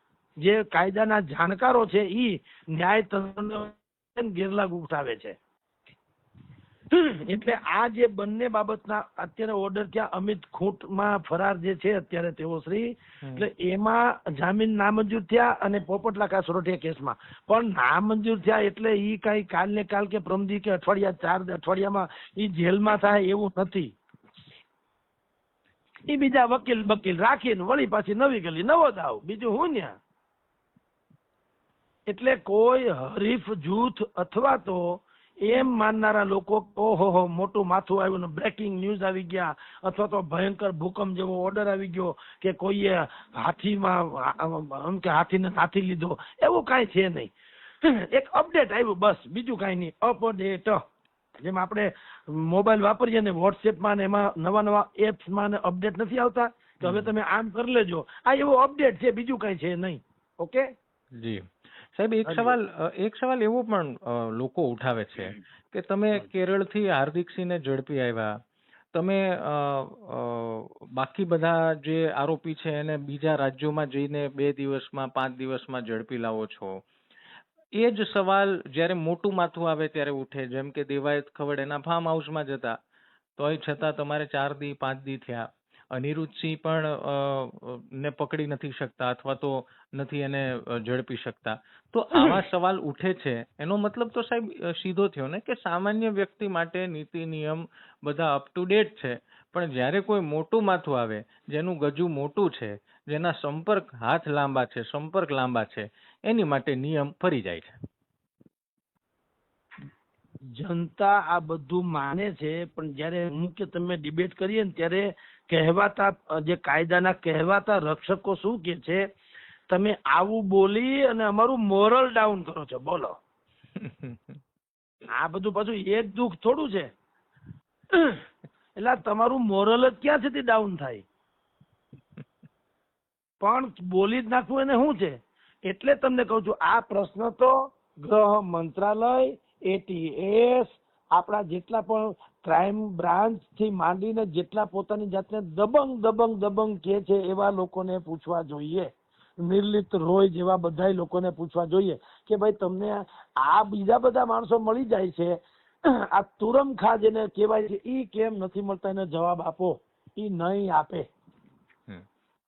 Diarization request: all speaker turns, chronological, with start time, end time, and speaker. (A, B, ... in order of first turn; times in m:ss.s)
0:00.4-0:05.4 A
0:06.9-0:23.9 A
0:13.2-0:13.5 B
0:26.1-0:29.9 A
0:32.1-0:47.3 A
0:47.8-0:50.8 A
0:51.4-1:00.7 A
0:56.8-0:57.1 B
1:01.2-1:08.3 B
1:02.3-1:02.6 A
1:08.9-1:16.8 B
1:17.8-1:22.8 B
1:23.4-1:47.8 B
1:50.6-1:59.0 A
1:59.7-2:03.1 A
2:03.8-2:04.4 B
2:05.1-2:06.9 A
2:07.9-2:08.2 A
2:08.8-2:11.0 A
2:13.4-2:15.2 A
2:15.7-2:28.9 A
2:29.4-2:35.4 A
2:36.1-2:41.0 A